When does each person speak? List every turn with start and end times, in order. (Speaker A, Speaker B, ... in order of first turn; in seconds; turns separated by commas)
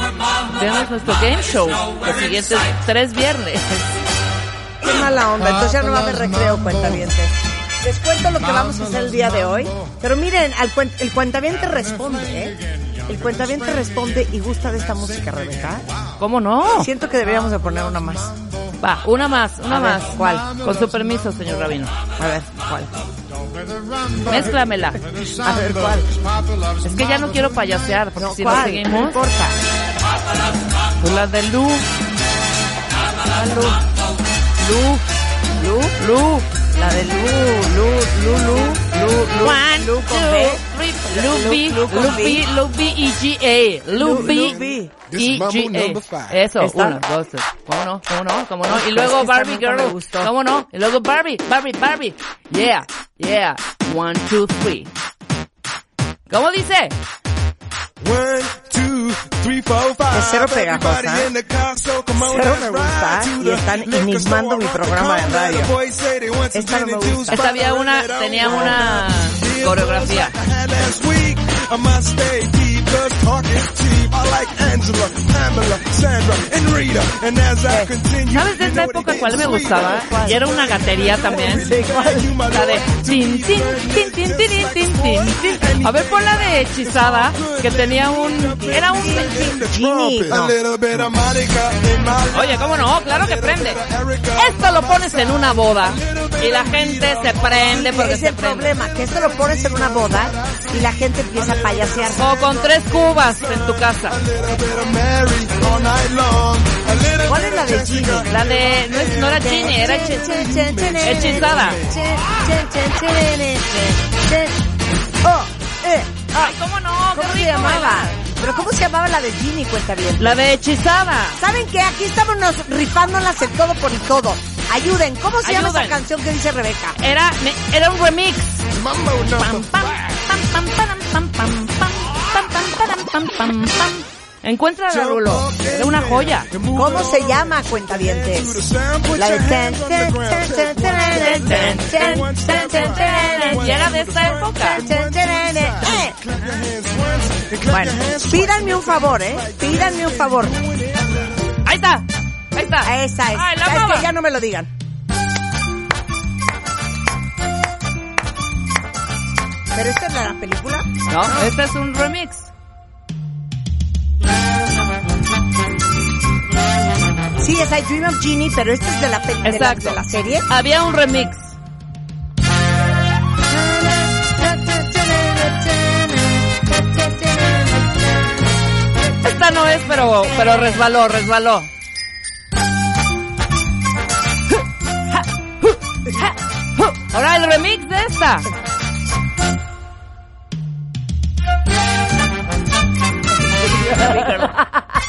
Speaker A: 0.5-3.9, Speaker B: 4.8-12.6, Speaker C: 5.4-7.0, Speaker C: 8.4-9.9, Speaker C: 11.5-16.1, Speaker B: 13.1-15.8, Speaker A: 16.2-16.9, Speaker B: 16.7-18.3, Speaker C: 17.4-18.8, Speaker A: 18.8-21.9, Speaker B: 19.7-20.5, Speaker C: 20.2-21.6, Speaker B: 22.2-22.9, Speaker C: 23.3-27.9, Speaker A: 24.3-25.0, Speaker B: 25.4-26.1, Speaker A: 26.8-29.2, Speaker B: 28.2-29.6, Speaker A: 31.0-31.9, Speaker A: 33.4-33.8, Speaker B: 33.4-33.8, Speaker A: 34.6-35.0, Speaker B: 35.6-36.0, Speaker A: 36.0-36.5, Speaker B: 36.8-42.5, Speaker A: 39.4-44.6, Speaker B: 43.9-45.0, Speaker D: 44.1-46.4, Speaker A: 45.1-54.9, Speaker B: 46.6-47.0, Speaker B: 48.7-50.3, Speaker A: 56.3-57.0, Speaker D: 58.0-97.8, Speaker B: 60.1-61.3, Speaker B: 62.1-65.7, Speaker B: 66.5-67.5, Speaker A: 67.3-70.3, Speaker B: 68.4-68.8, Speaker B: 77.7-77.9, Speaker A: 78.3-81.7, Speaker B: 80.0-80.4, Speaker B: 81.3-82.4, Speaker A: 82.5-89.6, Speaker B: 88.7-90.6, Speaker A: 92.3-93.8, Speaker A: 94.4-98.7, Speaker B: 97.7-102.3, Speaker D: 99.3-112.0, Speaker A: 102.1-104.2, Speaker B: 107.3-108.3, Speaker A: 108.3-110.4, Speaker B: 109.3-114.6, Speaker A: 111.0-111.8, Speaker B: 115.2-116.6, Speaker A: 116.3-118.1, Speaker B: 117.1-120.4, Speaker A: 120.2-121.4, Speaker B: 121.4-127.0, Speaker A: 125.4-126.0, Speaker A: 127.0-128.7, Speaker D: 128.7-129.7, Speaker A: 129.4-136.5, Speaker D: 134.9-151.4, Speaker B: 136.7-143.9, Speaker A: 141.0-144.8, Speaker B: 144.7-146.2, Speaker B: 147.7-150.6, Speaker A: 151.7-154.1, Speaker B: 152.8-154.7, Speaker B: 159.7-161.5, Speaker A: 161.1-162.5, Speaker B: 167.4-170.5, Speaker A: 169.4-171.6, Speaker B: 173.5-178.0, Speaker A: 179.2-181.7, Speaker A: 185.2-188.5, Speaker A: 193.6-194.6, Speaker B: 193.8-194.8